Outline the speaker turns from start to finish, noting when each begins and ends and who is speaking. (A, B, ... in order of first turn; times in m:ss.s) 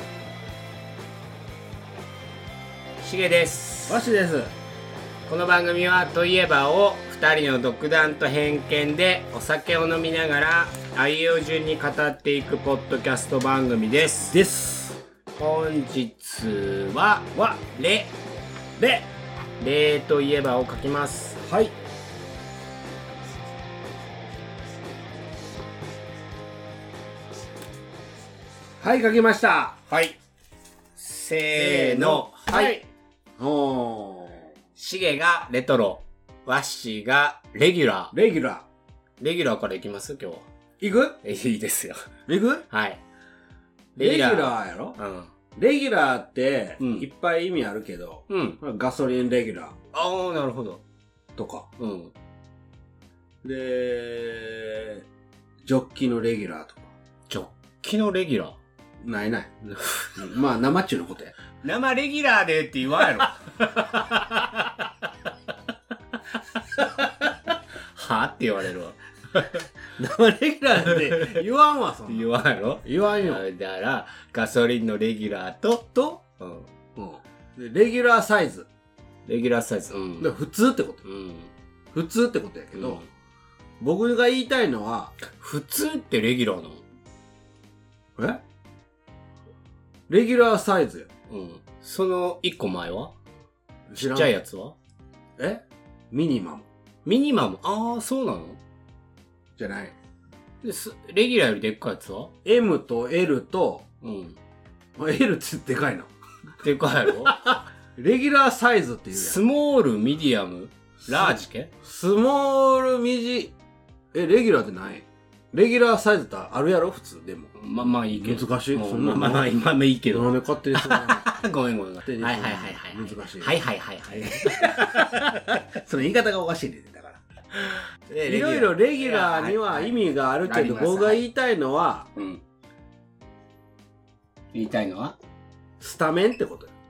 0:03.0-0:04.0 A
0:03.9-0:04.5 B
0:05.3-0:14.4 A
0:14.3-0:15.0 B
0:15.4-0:18.1 A
0:18.8-0:19.1 B
0:19.6-0:21.4 A
0:21.4-0:21.7 B
0:28.8-0:29.8 B
0:29.9-0:30.2 A
0:31.0-0:32.8 A
0:31.6-0:32.8 B
0:33.4-0:34.5 B
0:34.8-0:38.1 A
0:38.1-0:38.6 B
0:39.2-0:40.5 A
0:40.8-0:41.2 B
0:41.2-0:42.0 A
0:42.3-0:42.6 B
0:42.7-0:43.0 A
0:44.0-0:45.0 B
0:44.0-0:45.3 A
0:45.5-0:49.7 B
0:46.8-0:47.1 A
0:48.3-0:48.6 A
0:49.9-0:50.8 A
0:51.4-0:51.7 B
0:51.8-0:52.1 A
0:53.4-0:55.0 B
0:55.6-0:56.9 B
0:57.3-0:58.6 A
0:59.0-1:01.3 B
1:01.6-1:04.2 A
1:03.8-1:04.7 B
1:06.8-1:07.3 B
1:07.9-1:09.0 A
1:09.5-1:12.3 B
1:10.8-1:11.4 A
1:12.1-1:16.7 A
1:12.8-1:13.4 B
1:15.9-1:16.2 B
1:17.0-1:18.7 B
1:19.2-1:20.3 A
1:20.2-1:21.0 B
1:21.0-1:21.5 A
1:21.9-1:23.0 B
1:22.7-1:23.1 A
1:23.8-1:25.2 B
1:25.2-1:26.8 A
1:28.2-1:28.4 B
1:30.1-1:31.1 B
1:31.3-1:33.1 A
1:33.9-1:34.3 B
1:34.0-1:34.8 A
1:35.4-1:36.7 B
1:37.0-1:38.6 A
1:39.6-1:40.0 B
1:40.6-1:42.3 A
1:42.4-1:43.8 B
1:44.0-1:44.4 A
1:45.0-1:46.1 B
1:46.6-1:47.5 A
1:47.1-1:49.4 B
1:49.1-1:51.7 A
1:51.1-1:53.5 B
1:54.1-1:57.6 B
1:57.6-2:05.6 A
1:58.1-1:59.5 B
2:00.1-2:01.3 B
2:02.0-2:03.6 B
2:04.1-2:07.2 B
2:07.5-2:11.2 A
2:08.2-2:12.1 B
2:12.2-2:12.4 A
2:14.5-2:15.2 A
2:15.8-2:16.7 B